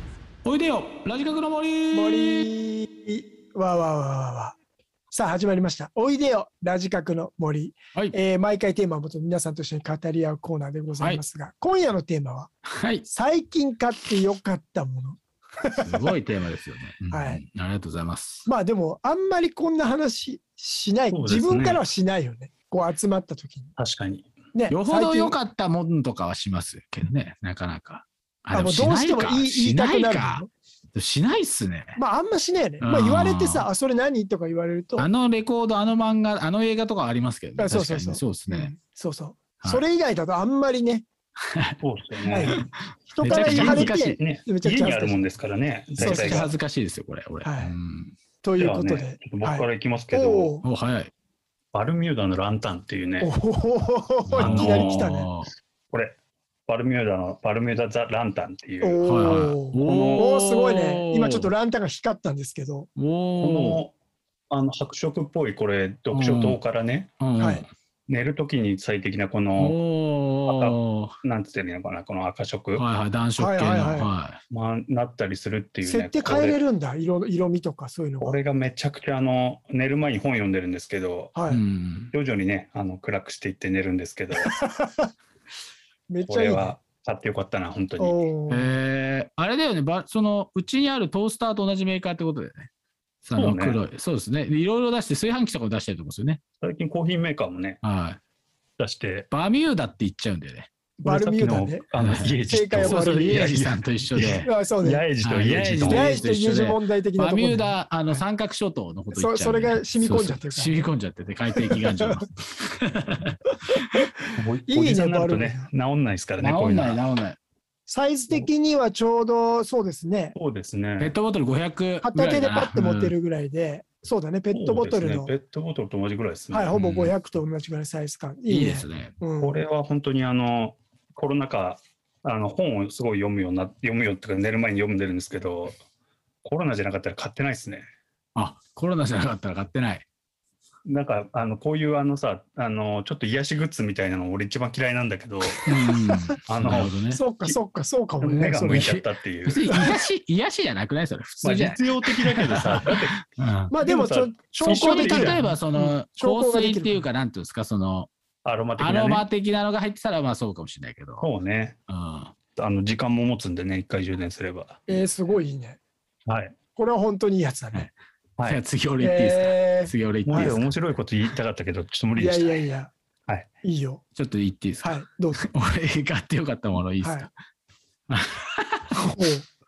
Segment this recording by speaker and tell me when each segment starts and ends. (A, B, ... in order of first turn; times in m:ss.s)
0:00.4-0:02.5 A
0:01.9-0:04.6 B
0:05.1-0:12.5 B
0:11.0-0:11.2 A
0:12.8-0:13.1 A
0:13.1-0:16.1 B
0:15.8-0:18.5 A
0:17.1-0:17.4 B
0:18.5-0:23.7 B
0:21.1-0:21.8 C
0:23.8-0:24.3 C
0:24.5-0:25.4 B
0:24.7-0:32.0 A
0:28.5-0:30.5 B
0:32.0-0:35.1 B
0:32.8-0:33.7 A
0:35.0-0:38.7 A
0:37.6-0:41.0 B
0:41.8-0:42.7 C
0:42.3-0:42.6 B
0:43.1-0:44.2 A
0:43.1-0:45.2 B
0:43.2-0:46.5 C
0:46.0-0:48.1 A
0:46.0-0:46.5 B
0:47.4-0:47.8 B
0:48.4-0:50.6 B
0:48.6-0:50.6 C
0:50.6-0:51.1 A
0:51.7-0:53.3 C
0:53.2-0:55.3 B
0:54.3-0:55.5 A
0:54.4-0:55.0 C
0:55.9-0:56.2 C
0:56.7-0:59.0 C
0:58.8-1:02.9 B
0:59.0-1:01.5 A
0:59.8-1:00.3 C
1:03.0-1:03.8 A
1:03.4-1:03.9 C
1:04.5-1:07.1 C
1:06.1-1:06.6 A
1:07.2-1:07.7 A
1:07.4-1:07.7 B
1:08.1-1:09.8 C
1:09.6-1:11.2 A
1:10.5-1:12.9 C
1:12.8-1:14.4 A
1:13.4-1:14.1 B
1:14.5-1:16.6 C
1:15.8-1:18.4 B
1:18.2-1:21.4 C
1:21.4-1:21.6 B
1:21.5-1:22.1 A
1:22.1-1:24.5 C
1:24.4-1:25.1 B
1:26.1-1:26.8 B
1:26.2-1:28.2 C
1:28.0-1:28.8 B
1:28.5-1:32.7 A
1:33.2-1:36.4 A
1:33.4-1:33.8 C
1:36.6-1:37.8 C
1:37.8-1:38.2 A
1:38.8-1:39.3 C
1:39.3-1:40.7 A
1:41.0-1:41.9 B
1:41.0-1:46.2 C
1:42.0-1:44.5 A
1:42.5-1:43.5 B
1:44.4-1:45.0 B
1:45.2-1:53.3 A
1:45.9-1:48.2 B
1:49.1-1:50.8 B
1:51.6-1:52.2 B
1:54.4-1:57.0 C
1:54.7-1:55.7 B
1:56.4-1:57.4 A
1:57.9-2:00.4 B
2:00.4-2:01.1 C
2:01.0-2:03.1 A
2:02.0-2:05.3 B
2:04.5-2:06.8 C
2:06.5-2:09.6 B
2:06.7-2:07.2 A
2:08.5-2:09.1 A
2:09.4-2:15.8 C
2:16.4-2:17.8 C
2:18.4-2:20.1 A
2:20.8-2:25.6 C
2:25.7-2:27.2 A
2:26.0-2:26.2 B
2:26.5-2:27.6 C
2:27.1-2:29.0 B
2:28.2-2:29.7 C
2:28.7-2:33.7 A
2:31.4-2:35.4 C
2:33.7-2:37.1 B
2:34.6-2:38.1 A
2:38.4-2:39.3 C
2:38.8-2:41.3 A
2:41.2-2:41.8 C
2:41.9-2:42.3 A
2:42.6-2:45.0 C
2:44.9-2:45.8 B
2:46.3-2:46.6 C
2:46.8-2:47.9 B
2:48.5-2:50.7 A
2:49.0-2:50.6 B
2:50.3-2:52.7 C
2:52.2-2:52.9 B
2:53.6-2:54.0 B
2:54.2-2:57.3 A
2:54.8-2:55.4 B
2:57.0-2:57.3 B
2:58.1-2:58.9 A
2:59.0-2:59.5 B